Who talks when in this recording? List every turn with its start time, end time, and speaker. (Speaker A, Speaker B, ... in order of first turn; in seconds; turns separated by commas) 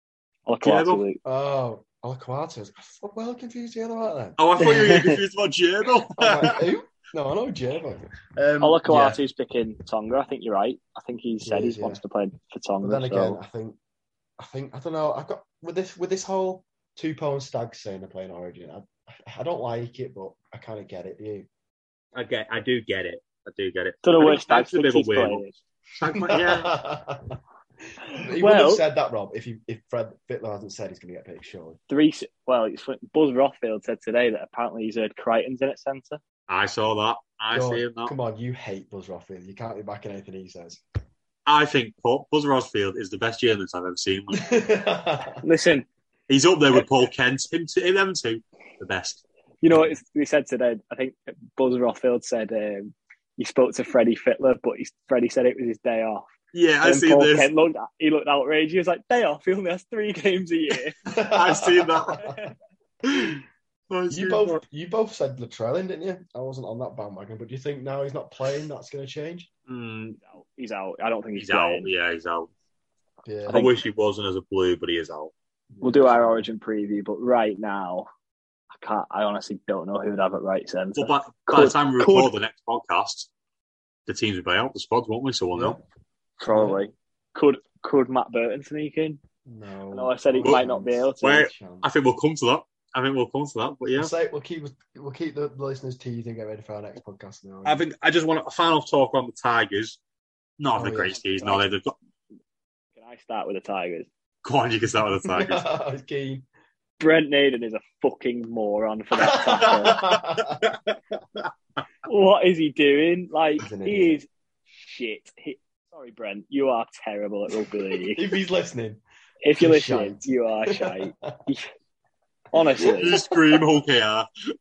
Speaker A: 0.5-1.2, Speaker B: 0.6-1.0, Speaker C: 1.2-5.0, Speaker B: 4.4-6.6, Speaker C: 6.2-8.9, Speaker A: 8.6-13.4, Speaker B: 8.9-9.2, Speaker C: 11.4-12.0, Speaker C: 12.8-13.8, Speaker C: 14.4-21.5, Speaker B: 22.1-25.5, Speaker A: 24.0-25.5, Speaker B: 26.0-26.8, Speaker C: 26.1-31.8, Speaker A: 28.1-28.8, Speaker A: 31.9-36.2, Speaker B: 36.5-38.1, Speaker C: 37.5-40.8, Speaker B: 41.5-44.6, Speaker C: 44.4-45.4, Speaker A: 45.4-45.9, Speaker B: 46.3-49.2, Speaker A: 49.6-56.3, Speaker B: 56.5-57.5, Speaker A: 56.8-61.0, Speaker C: 61.0-62.5, Speaker B: 61.1-62.3, Speaker C: 63.0-63.3, Speaker B: 63.1-64.6, Speaker C: 64.1-69.5, Speaker B: 69.7-70.2, Speaker A: 70.3-71.9, Speaker B: 71.3-72.5, Speaker C: 73.2-73.7, Speaker B: 73.5-75.3, Speaker C: 75.7-76.5, Speaker A: 75.8-78.1, Speaker A: 78.8-82.3, Speaker B: 80.9-83.3, Speaker B: 84.1-85.8, Speaker C: 85.5-85.8, Speaker A: 86.4-89.2, Speaker C: 86.5-86.8, Speaker C: 89.5-91.9, Speaker A: 89.9-91.5, Speaker B: 91.2-94.1, Speaker C: 94.0-97.8, Speaker B: 97.6-100.0, Speaker B: 100.6-102.0, Speaker C: 100.8-101.6, Speaker A: 103.0-104.1, Speaker B: 104.4-105.7, Speaker C: 105.2-106.4, Speaker A: 107.0-110.0, Speaker C: 109.2-110.6, Speaker B: 109.9-111.5, Speaker A: 112.0-114.3, Speaker C: 113.6-114.2, Speaker A: 114.8-118.3, Speaker C: 118.0-119.0, Speaker A: 119.4-121.7, Speaker C: 119.6-121.4, Speaker A: 122.5-123.2, Speaker C: 122.8-123.6, Speaker B: 122.8-124.3